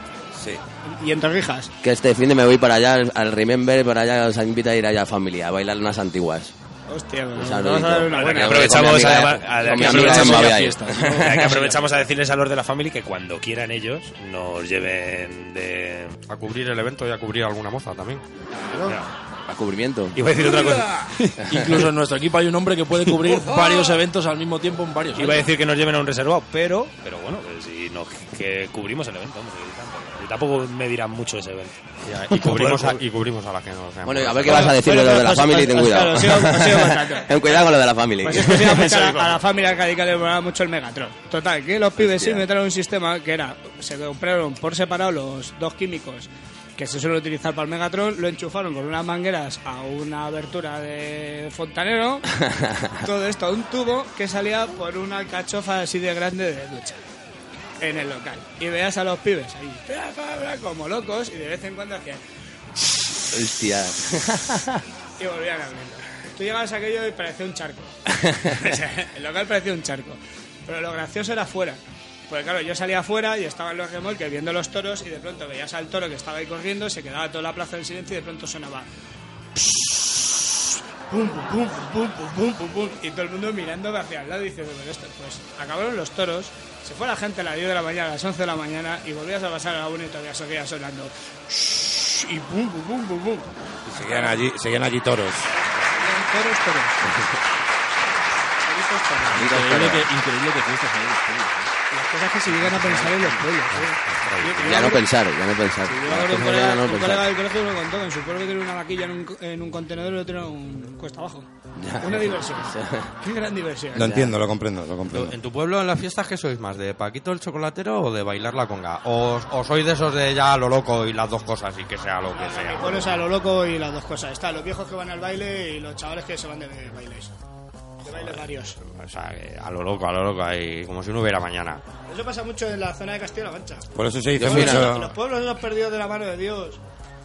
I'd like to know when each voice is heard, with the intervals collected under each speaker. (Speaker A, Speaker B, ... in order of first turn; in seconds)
Speaker A: 0.3-0.6, 93.8-95.5, 113.9-115.3, 133.9-135.1
Speaker B: 0.9-1.7, 6.9-8.9, 34.4-37.3, 38.2-52.3, 53.0-57.0, 57.8-62.2, 65.2-67.9, 68.5-78.9, 79.5-94.4, 95.8-97.0, 98.6-99.5, 101.9-105.1, 105.8-111.5, 112.0-114.2, 122.3-127.3, 128.0-128.8, 132.1-136.8
Speaker C: 1.8-6.5, 7.3-11.6, 19.5-20.1, 34.0-39.1, 42.0-42.4, 63.3-64.7, 68.2-68.5, 99.3-100.0, 104.6-107.3, 111.8-113.1, 114.0-114.3, 134.4-134.9
Speaker D: 8.1-16.1, 18.8-19.1, 20.1-21.6, 23.1-23.5, 25.1-33.0
Speaker E: 9.6-11.9, 21.4-25.5, 99.3-101.7
Speaker F: 16.3-18.2, 32.0-34.7, 103.7-104.9, 115.1-123.1, 128.1-131.8